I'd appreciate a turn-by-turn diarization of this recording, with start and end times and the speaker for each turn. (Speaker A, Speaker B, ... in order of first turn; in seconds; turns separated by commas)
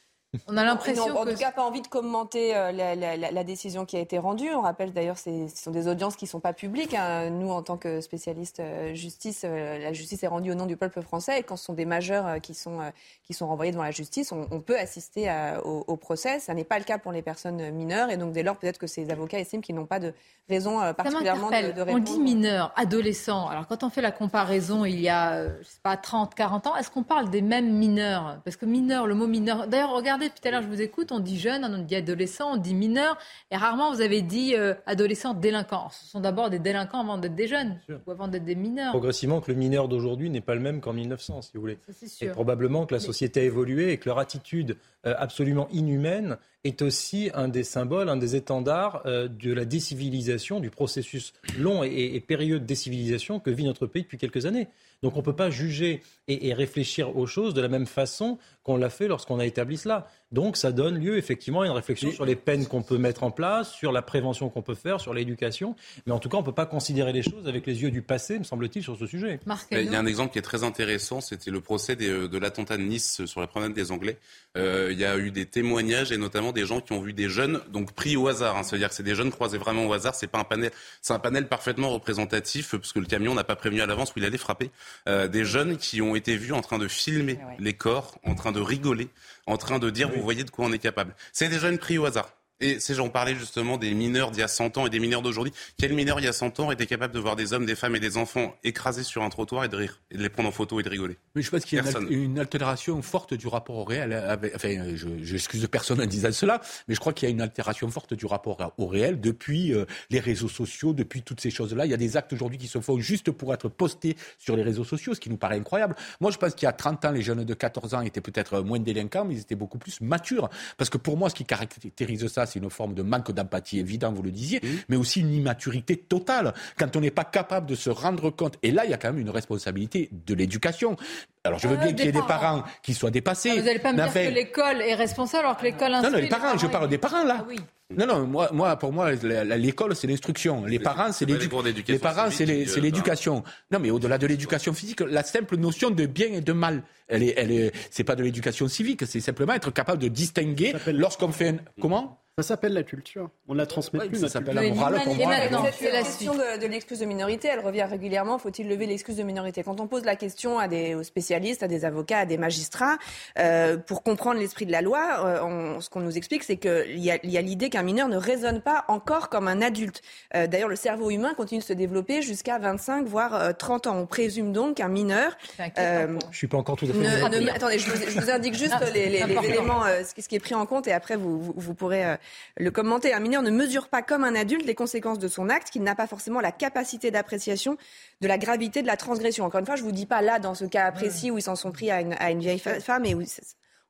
Speaker A: 0.5-1.4, Speaker B: 0.7-22.4, Speaker A: 21.0-39.0, Speaker C: 38.9-69.4, Speaker A: 41.9-42.4, Speaker A: 69.5-70.0, Speaker D: 69.7-101.2, Speaker E: 101.3-134.4, Speaker D: 101.8-102.1, Speaker A: 131.6-132.5, Speaker A: 133.5-137.7, Speaker E: 136.0-152.2, Speaker D: 140.8-143.1, Speaker F: 150.7-151.1, Speaker F: 152.4-155.0, Speaker E: 154.0-155.8, Speaker A: 154.6-156.3, Speaker B: 155.2-176.3, Speaker A: 175.6-176.3, Speaker C: 176.3-178.2, Speaker B: 176.9-193.5, Speaker A: 177.0-177.6, Speaker A: 178.7-179.8, Speaker A: 192.5-192.8